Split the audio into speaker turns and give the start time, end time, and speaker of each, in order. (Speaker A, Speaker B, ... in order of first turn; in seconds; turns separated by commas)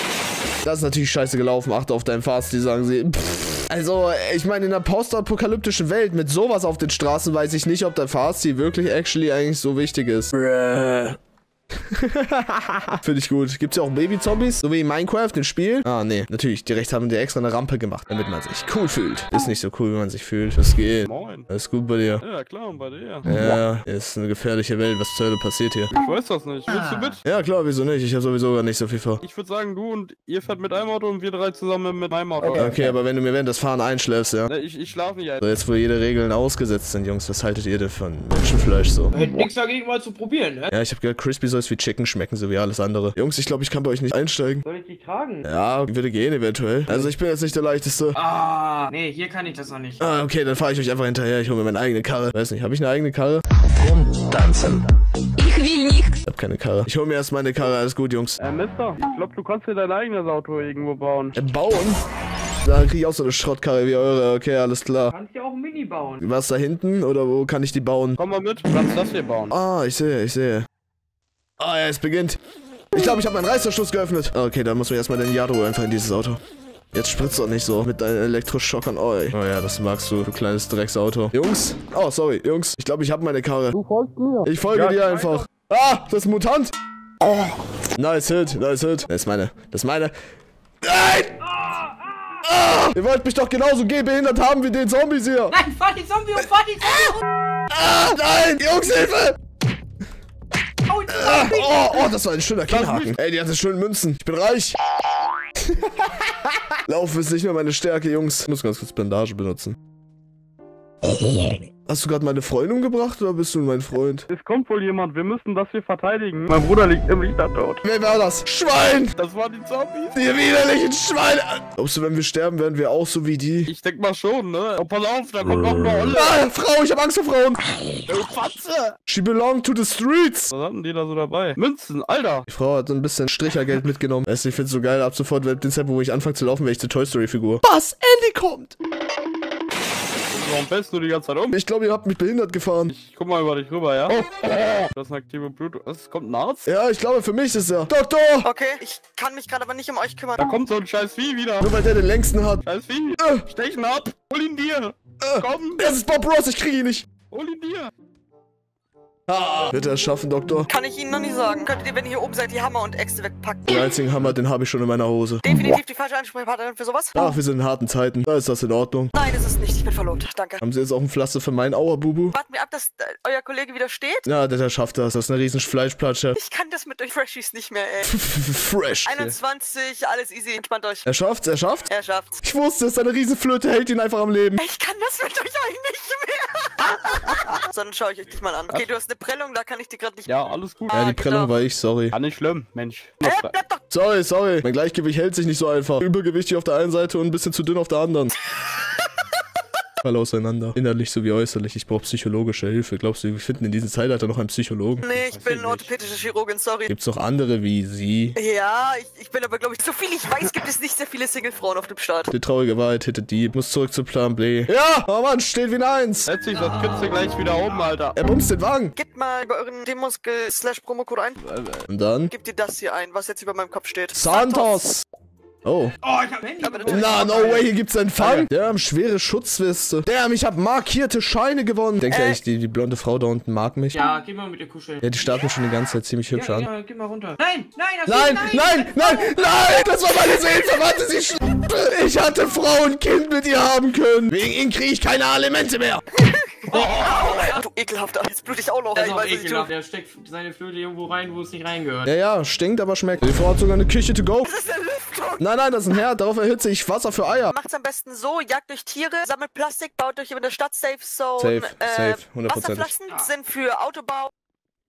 Speaker A: 0.6-11.2, Speaker A: 11.9-22.2, Speaker B: 21.1-21.5, Speaker B: 22.2-23.2, Speaker A: 23.2-25.9, Speaker B: 25.9-27.2, Speaker A: 27.2-29.2, Speaker B: 29.2-32.8, Speaker A: 32.5-34.5, Speaker B: 34.5-35.4, Speaker A: 35.4-39.1, Speaker C: 39.1-40.7, Speaker A: 40.7-44.6, Speaker C: 44.6-45.5, Speaker A: 45.4-48.2, Speaker C: 48.1-50.0, Speaker A: 50.0-54.8, Speaker A: 56.2-58.4, Speaker B: 58.4-61.3, Speaker A: 61.4-62.0, Speaker A: 62.6-65.1, Speaker C: 65.1-66.2, Speaker A: 66.2-68.2, Speaker B: 68.2-69.5, Speaker A: 69.5-70.7, Speaker A: 71.6-72.4, Speaker A: 72.9-76.4, Speaker A: 76.9-83.9, Speaker C: 83.9-84.3, Speaker A: 84.4-90.1, Speaker B: 84.7-85.5, Speaker A: 90.8-91.5, Speaker C: 91.6-92.3, Speaker A: 92.4-95.6, Speaker C: 95.5-97.2, Speaker A: 96.8-97.2, Speaker A: 97.7-99.4, Speaker C: 100.9-102.1, Speaker A: 101.1-104.8, Speaker B: 102.7-103.1, Speaker A: 105.7-109.8, Speaker A: 111.0-114.3, Speaker B: 114.3-117.8, Speaker A: 117.8-119.2, Speaker B: 119.2-120.2, Speaker A: 120.1-123.7, Speaker B: 123.7-126.4, Speaker A: 126.1-127.6, Speaker B: 128.1-129.0, Speaker A: 129.1-130.5, Speaker B: 130.5-132.4, Speaker A: 132.5-138.7, Speaker B: 140.3-141.6, Speaker A: 141.5-142.9, Speaker B: 142.9-144.2, Speaker A: 144.4-144.8, Speaker B: 144.9-146.7, Speaker A: 146.7-148.5, Speaker D: 148.4-150.4, Speaker B: 150.4-151.7, Speaker A: 151.6-152.6, Speaker B: 152.6-155.9, Speaker A: 153.2-153.5, Speaker A: 155.2-157.1, Speaker B: 157.3-157.9, Speaker A: 159.3-160.7, Speaker D: 160.7-164.0, Speaker A: 163.7-165.6, Speaker D: 165.4-167.3, Speaker A: 167.2-169.1, Speaker D: 169.1-170.6, Speaker A: 170.6-172.4, Speaker D: 172.3-174.3, Speaker A: 174.2-176.4, Speaker D: 176.3-178.1, Speaker A: 178.0-179.3, Speaker D: 179.0-181.1, Speaker A: 181.1-181.9, Speaker D: 181.8-182.4, Speaker A: 182.4-184.6, Speaker D: 184.6-190.3, Speaker B: 190.3-191.0, Speaker D: 190.9-191.5, Speaker A: 190.9-192.1, Speaker B: 192.1-193.5, Speaker D: 193.2-193.8, Speaker A: 193.9-198.3, Speaker A: 200.0-205.0, Speaker D: 205.0-206.9, Speaker B: 205.1-205.9, Speaker A: 206.9-208.4, Speaker D: 208.4-212.3, Speaker A: 212.3-216.3, Speaker B: 216.3-218.2, Speaker A: 218.2-218.9, Speaker D: 218.9-221.4, Speaker B: 221.4-221.8, Speaker A: 221.8-222.3, Speaker D: 222.3-224.8, Speaker A: 224.1-225.0, Speaker A: 225.6-226.0, Speaker C: 226.0-227.7, Speaker D: 226.6-227.4, Speaker A: 226.9-234.0, Speaker D: 232.1-232.4, Speaker C: 233.9-235.2, Speaker A: 235.0-236.7, Speaker C: 236.3-239.5, Speaker A: 238.1-246.0, Speaker D: 246.1-249.7, Speaker C: 246.7-247.5, Speaker C: 248.9-252.1, Speaker A: 252.0-254.5, Speaker D: 254.4-255.4, Speaker A: 255.4-257.5, Speaker D: 257.5-264.3, Speaker A: 261.4-262.9